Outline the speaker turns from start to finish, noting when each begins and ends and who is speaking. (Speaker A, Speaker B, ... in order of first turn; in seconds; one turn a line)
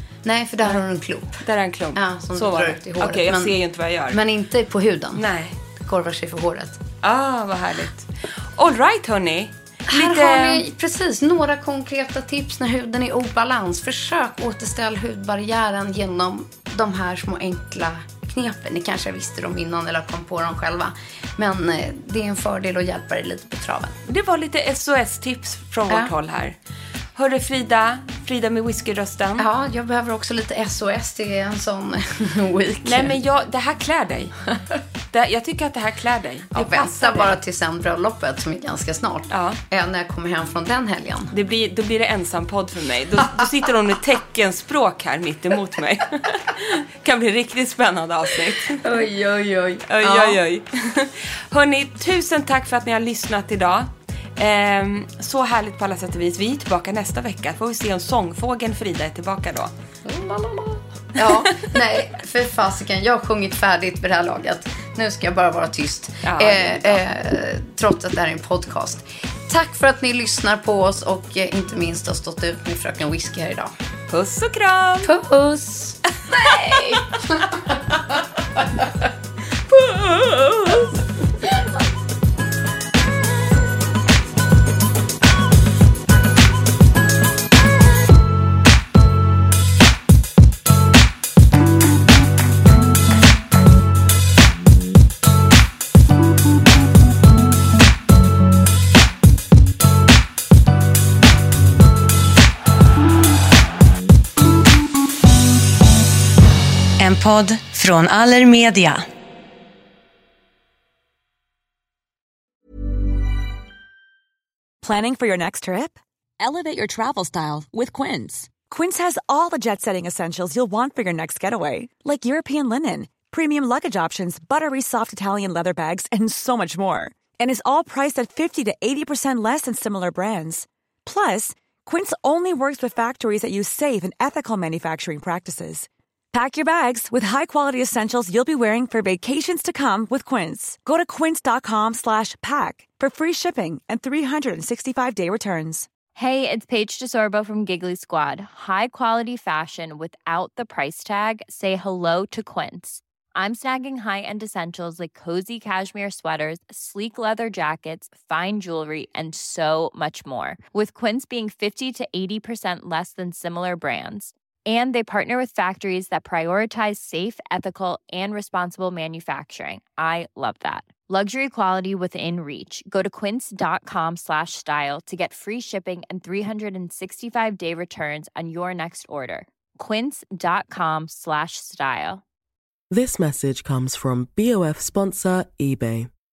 Speaker A: 0.2-1.4
Speaker B: 1.4-4.2
Speaker A: 1.9-3.5
Speaker A: 4.1-6.8
Speaker B: 5.2-5.6
Speaker B: 7.0-10.6
Speaker A: 9.9-24.0
Speaker B: 24.1-26.6
Speaker B: 27.1-29.5
Speaker A: 29.4-33.1
Speaker B: 32.8-34.3
Speaker A: 34.5-34.8
Speaker B: 35.1-37.4
Speaker A: 36.5-41.3
Speaker B: 39.3-39.6
Speaker B: 41.3-49.0
Speaker A: 48.8-50.4
Speaker B: 49.9-59.7
Speaker A: 60.0-73.7
Speaker B: 61.2-61.7
Speaker B: 66.2-67.0
Speaker B: 74.1-75.1
Speaker A: 75.0-77.6
Speaker B: 76.4-77.0
Speaker B: 79.7-80.9
Speaker B: 107.0-108.9
Speaker C: 114.8-145.9
Speaker D: 146.1-182.2
Speaker E: 182.9-186.1